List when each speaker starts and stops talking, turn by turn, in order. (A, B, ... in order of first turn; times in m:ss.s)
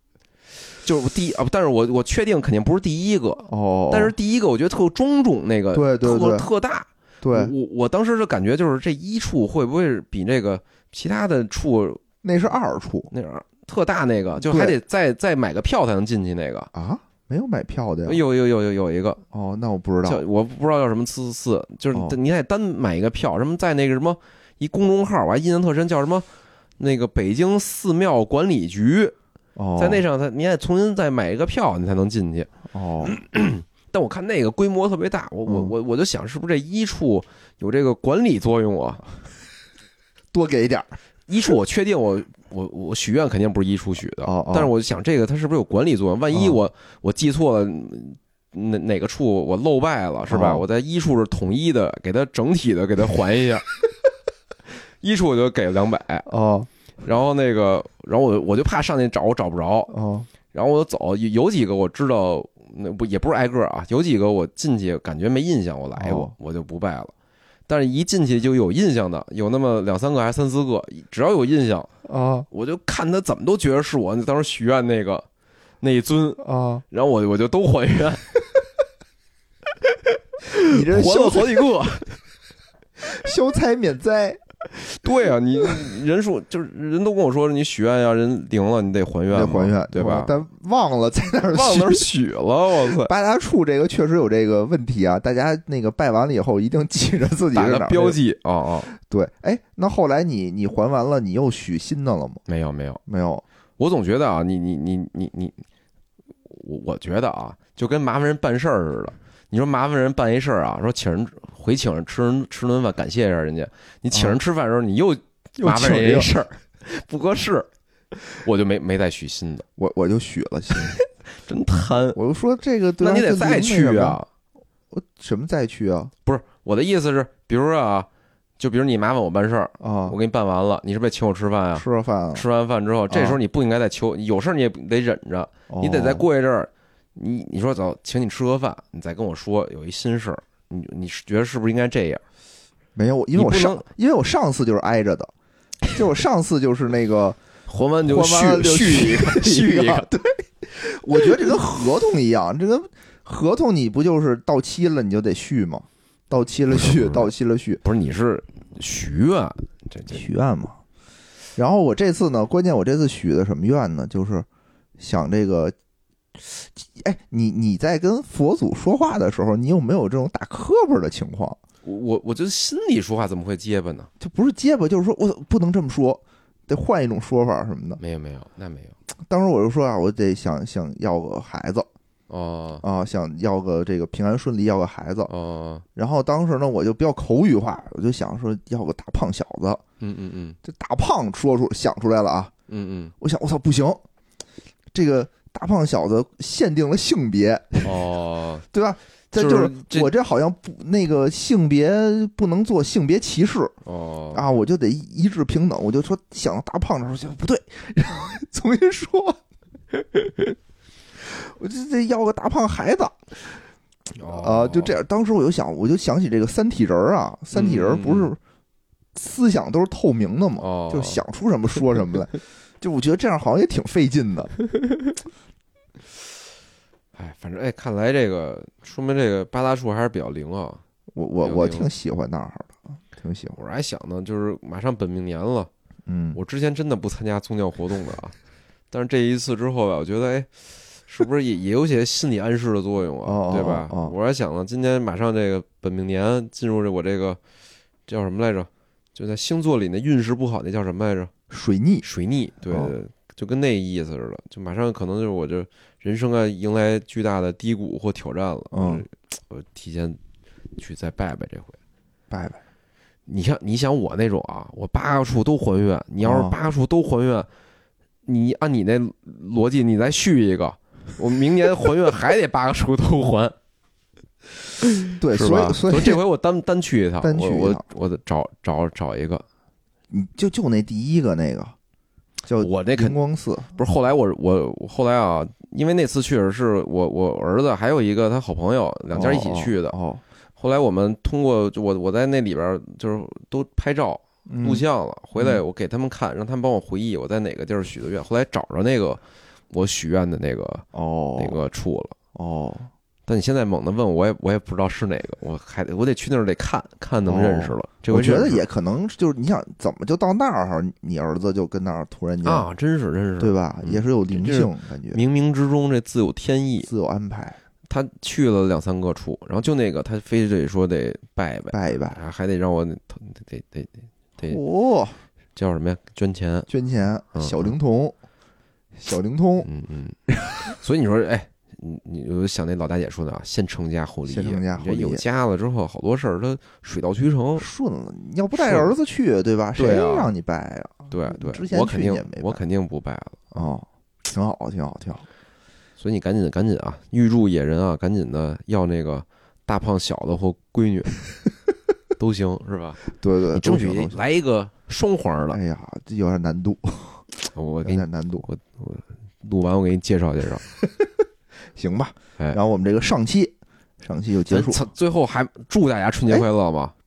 0:00.8-0:12.0 A
0:03.5-0:04.1 B
0:05.7-0:06.5 B
0:07.2-0:07.5 B
0:12.2-0:13.1 B
0:13.1-0:16.7 A
0:14.4-0:14.8 B
0:16.7-0:18.2 B
0:18.0-0:19.2 A
0:19.3-0:20.2 B
0:20.0-0:26.3 A
0:26.8-0:29.1 A
0:29.6-0:30.0 B
0:29.8-0:32.5 A
0:32.7-0:33.1 B
0:33.0-0:39.1 A
0:35.5-0:35.7 B
0:40.3-0:41.0 B
0:41.3-0:53.7 A
0:44.2-0:44.7 B
0:46.3-0:46.6 B
0:50.3-0:50.6 B
0:55.0-0:56.3 A
0:56.3-0:56.7 B
0:57.0-0:59.9 A
0:59.9-1:00.3 B
1:00.5-1:07.1 A
1:06.0-1:06.3 B
1:07.7-1:11.9 A
1:12.0-1:12.5 B
1:12.5-1:15.3 A
1:15.8-1:18.2 A
1:16.4-1:16.8 B
1:19.9-1:22.2 A
1:20.6-1:21.7 B
1:23.0-1:24.4 B
1:24.8-1:30.3 A
1:29.3-1:32.1 B
1:31.5-1:33.1 A
1:32.9-1:38.2 B
1:37.5-1:38.9 A
1:38.9-1:42.4 B
1:42.5-1:43.0 A
1:43.1-1:43.4 B
1:43.8-1:45.6 A
1:46.5-1:57.7 A
1:54.1-1:54.4 B
1:55.6-1:56.3 B
1:58.3-1:59.7 A
1:59.8-2:01.0 B
2:00.9-2:02.2 A
2:02.2-2:04.2 B
2:03.0-2:04.3 A
2:04.9-2:06.1 B
2:06.3-2:08.1 A
2:08.6-2:22.2 A
2:09.8-2:10.2 B
2:11.8-2:12.4 B
2:13.1-2:13.4 B
2:15.7-2:16.2 B
2:23.0-2:25.3 B
2:23.4-2:23.9 A
2:25.9-2:27.4 B
2:27.7-2:30.1 A
2:28.0-2:37.8 B
2:36.7-2:37.3 A
2:37.8-2:40.2 A
2:40.1-2:40.8 B
2:41.6-2:44.5 B
2:45.0-2:45.8 B
2:46.4-2:51.6 B
2:51.8-2:54.1 A
2:54.2-2:58.0 B
2:58.0-2:59.0 A
2:59.2-3:01.9 B
3:02.3-3:02.8 A
3:02.8-3:05.3 B
3:05.3-3:05.8 A
3:06.0-3:09.8 B
3:10.0-3:10.6 A
3:10.6-3:12.5 B
3:12.7-3:13.1 A
3:13.2-3:14.0 B
3:14.9-3:18.0 B
3:17.8-3:18.6 A
3:18.7-3:23.7 B
3:19.4-3:20.1 A
3:23.9-3:24.4 A
3:24.3-3:29.4 B
3:31.2-3:33.3 B
3:34.2-3:35.0 A
3:34.2-3:38.4 B
3:37.5-3:38.3 A
3:39.2-3:44.5 B
3:40.6-3:41.2 A
3:47.2-3:50.8 A
3:51.1-3:53.6 B
3:51.4-3:51.9 A
3:53.6-3:55.7 A
3:56.1-3:56.4 B
3:56.3-3:58.4 A
3:58.9-4:07.4 A
4:03.2-4:04.2 B
4:08.1-4:11.3 A
4:11.5-4:12.0 B
4:12.0-4:20.2 A
4:12.6-4:13.0 B
4:18.7-4:19.0 B
4:20.8-4:21.8 A
4:22.3-4:22.6 B
4:23.3-4:27.5 A
4:26.2-4:26.5 B
4:28.3-4:33.6 A
4:34.8-4:39.5 A
4:35.2-4:36.2 B
4:37.2-4:37.8 B
4:40.1-4:41.8 B
4:42.4-4:43.8 B
4:42.6-4:43.2 A
4:43.8-4:50.0 A
4:49.1-4:50.2 B
4:50.6-4:59.2 A
4:54.5-4:54.8 B
4:55.4-4:55.6 B
4:59.7-5:00.9 A
5:00.9-5:01.6 B
5:01.4-5:02.2 A
5:02.4-5:02.9 B
5:03.3-5:08.6 A
5:07.2-5:12.7 B
5:12.4-5:16.9 A
5:13.4-5:15.2 B
5:16.8-5:17.6 B
5:17.9-5:24.6 A
5:21.7-5:22.2 B
5:24.4-5:25.2 B
5:25.6-5:26.7 A
5:26.7-5:28.2 B
5:27.4-5:27.7 A
5:29.0-5:29.7 B
5:29.6-5:37.7 A
5:30.3-5:30.8 B
5:34.3-5:35.2 B
5:37.6-5:42.6 B
5:38.5-5:39.0 A
5:39.8-5:40.3 A
5:41.1-5:43.4 A
5:43.5-5:45.3 B
5:46.0-5:51.2 A
5:52.2-5:53.0 A
5:53.2-5:54.2 B
5:53.5-5:55.6 A
5:55.5-5:58.5 B
5:57.5-6:00.6 A
6:01.8-6:04.9 B
6:04.5-6:06.9 A